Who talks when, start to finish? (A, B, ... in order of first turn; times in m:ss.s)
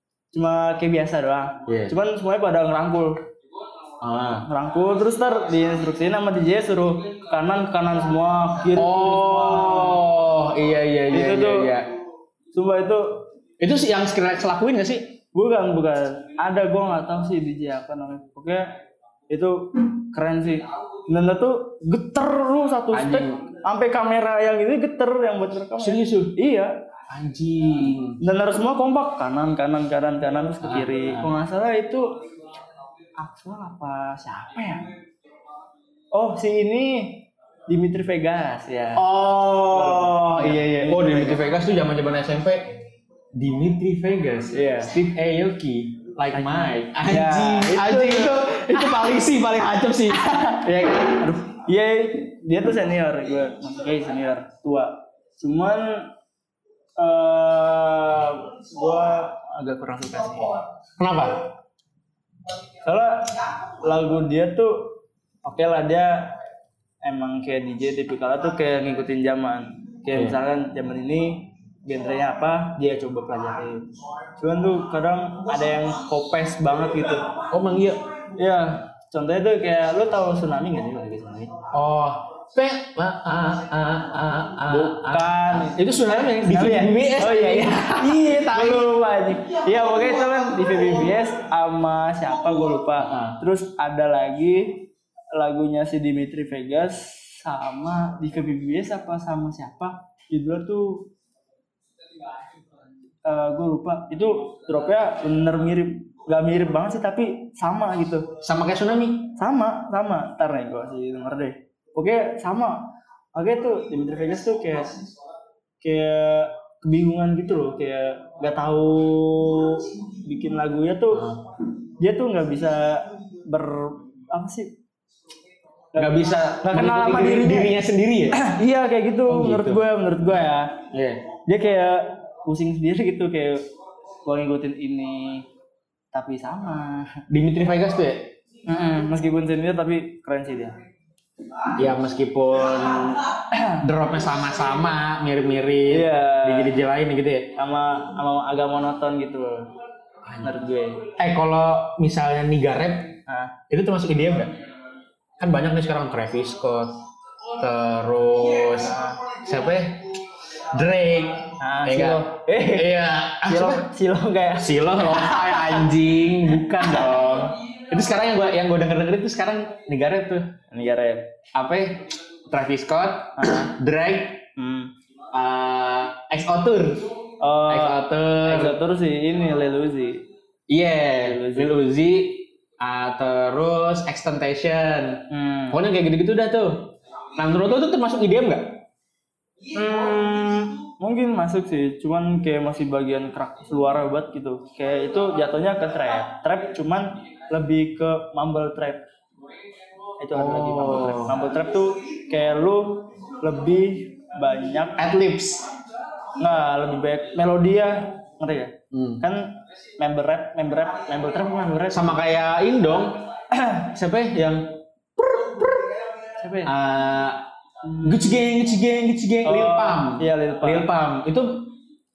0:00.3-0:03.2 A
0:01.7-0:01.9 B
0:04.0-0:04.5 B
0:04.4-0:10.0 A
0:08.7-0:11.9 B
0:11.1-0:11.7 A
0:12.5-0:13.3 A
0:13.6-0:15.2 B
0:15.3-0:18.7 A
0:19.3-0:26.7 A
0:22.9-0:23.5 B
0:25.8-0:26.4 B
0:27.1-0:28.2 B
0:28.2-0:32.1 A
0:30.6-0:31.3 B
0:33.2-0:34.9 A
0:36.1-0:39.0 A
0:39.0-0:42.7 B
0:39.7-0:41.4 A
0:43.4-0:51.2 B
0:44.5-0:44.9 A
0:46.3-0:49.2 A
0:50.1-0:56.1 A
0:57.0-1:00.6 A
1:01.0-1:01.4 B
1:02.8-1:06.4 A
1:07.0-1:13.9 A
1:14.4-1:17.3 A
1:17.5-1:18.0 B
1:18.4-1:21.5 A
1:21.7-1:28.9 B
1:24.7-1:41.1 A
1:33.0-1:33.4 B
1:43.2-1:48.3 A
1:48.4-1:49.3 B
1:49.4-1:55.0 A
1:55.8-2:01.3 A
2:01.1-2:01.4 B
2:02.0-2:04.7 A
2:05.9-2:07.8 A
2:06.0-2:08.4 B
2:08.3-2:10.8 A
2:09.3-2:09.8 B
2:10.9-2:11.2 B
2:11.4-2:13.6 A
2:14.2-2:15.5 A
2:16.1-2:17.2 A
2:17.3-2:18.3 B
2:18.7-2:20.8 A
2:21.8-2:23.3 B
2:23.5-2:23.8 A
2:23.8-2:27.5 B
2:25.9-2:26.8 A
2:27.6-2:29.7 A
2:30.4-2:31.0 A
2:31.2-2:33.2 B
2:33.3-2:33.5 A
2:33.7-2:34.5 B
2:35.4-2:37.0 B
2:37.6-2:40.1 B
2:38.8-2:39.2 A
2:40.7-2:43.8 B
2:41.6-2:42.9 A
2:43.5-2:45.9 A
2:44.6-2:50.5 B
2:46.8-2:47.1 A
2:50.7-2:51.3 A
2:51.5-2:54.5 B
2:53.4-2:53.7 A
2:54.6-2:54.9 A
2:55.3-2:57.1 B
2:57.4-3:00.2 A
2:57.7-2:58.8 B
3:00.7-3:08.8 B
3:01.2-3:01.7 A
3:05.3-3:05.8 A
3:09.7-3:19.0 A
3:20.2-3:25.0 A
3:20.3-3:21.4 B
3:25.0-3:25.7 B
3:26.4-3:32.2 A
3:28.9-3:29.2 B
3:31.9-3:33.2 B
3:33.5-3:33.8 A
3:33.9-3:35.9 B
3:36.4-3:36.7 A
3:36.6-3:37.5 B
3:37.9-3:38.2 A
3:38.0-3:41.7 B
3:39.4-3:40.9 A